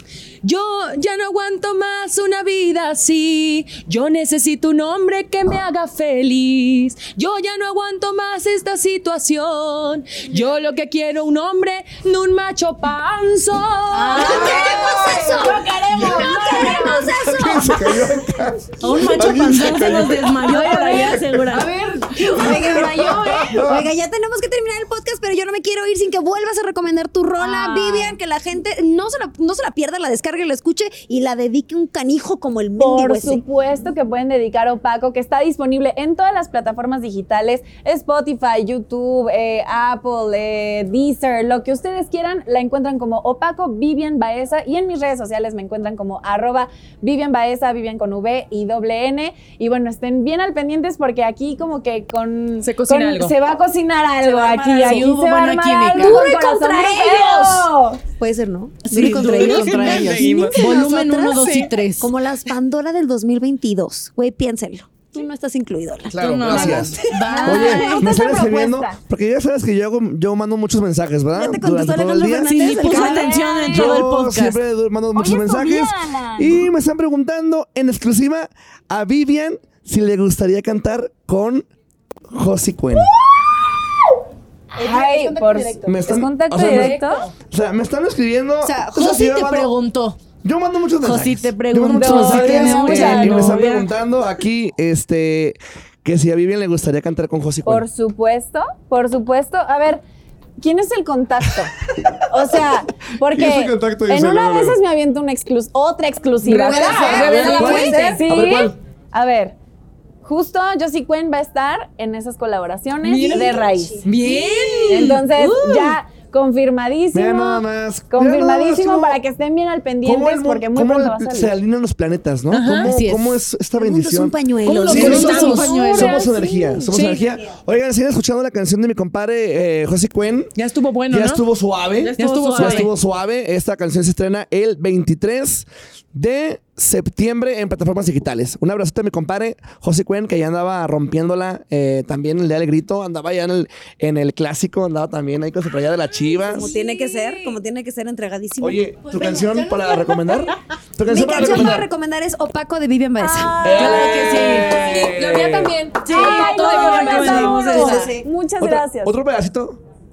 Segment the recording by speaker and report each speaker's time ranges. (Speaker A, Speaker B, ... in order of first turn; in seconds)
Speaker A: 0.4-17.5, 20.4-23.1, 27.4-28.2, 52.6-53.3, 54.4-55.1, 59.0-61.7, 86.6-87.3, 106.4-108.2, 113.0-116.0, 122.5-122.9, 124.6-126.2, 126.9-127.2, 130.5-131.4, 132.2-132.9, 153.5-157.9
Speaker B: 13.9-15.0, 18.8-21.7, 54.6-56.2, 58.8-62.1, 66.1-68.1, 72.4-74.6, 88.6-90.2, 91.0-93.9, 122.7-123.4, 124.8-126.3, 132.0-132.9, 149.0-150.5, 153.6-155.1, 156.0-158.2
Speaker C: 14.1-17.9, 22.3-33.4, 55.9-66.2, 71.3-73.5, 84.7-85.9, 106.4-108.2, 113.2-114.8, 123.8-126.8, 146.4-148.8, 151.0-153.6, 157.1-158.2
Speaker D: 14.1-17.1, 32.8-58.0, 59.9-60.6, 66.5-69.0, 72.8-74.0, 75.1-76.6, 84.8-87.3, 92.0-93.6, 97.6-100.0, 100.6-101.7, 102.3-109.5, 110.2-114.0, 114.8-121.5, 146.6-147.5, 153.2-154.2, 156.1-159.2
Speaker E: 15.9-16.3, 17.1-21.1, 22.4-23.9, 66.1-72.7, 73.7-81.7, 82.3-83.1, 85.8-89.7, 90.4-97.8, 103.3-104.8, 107.1-108.7, 117.1-119.2, 120.0-130.5, 131.1-146.7, 148.6-151.8, 153.6-155.7, 158.6-159.8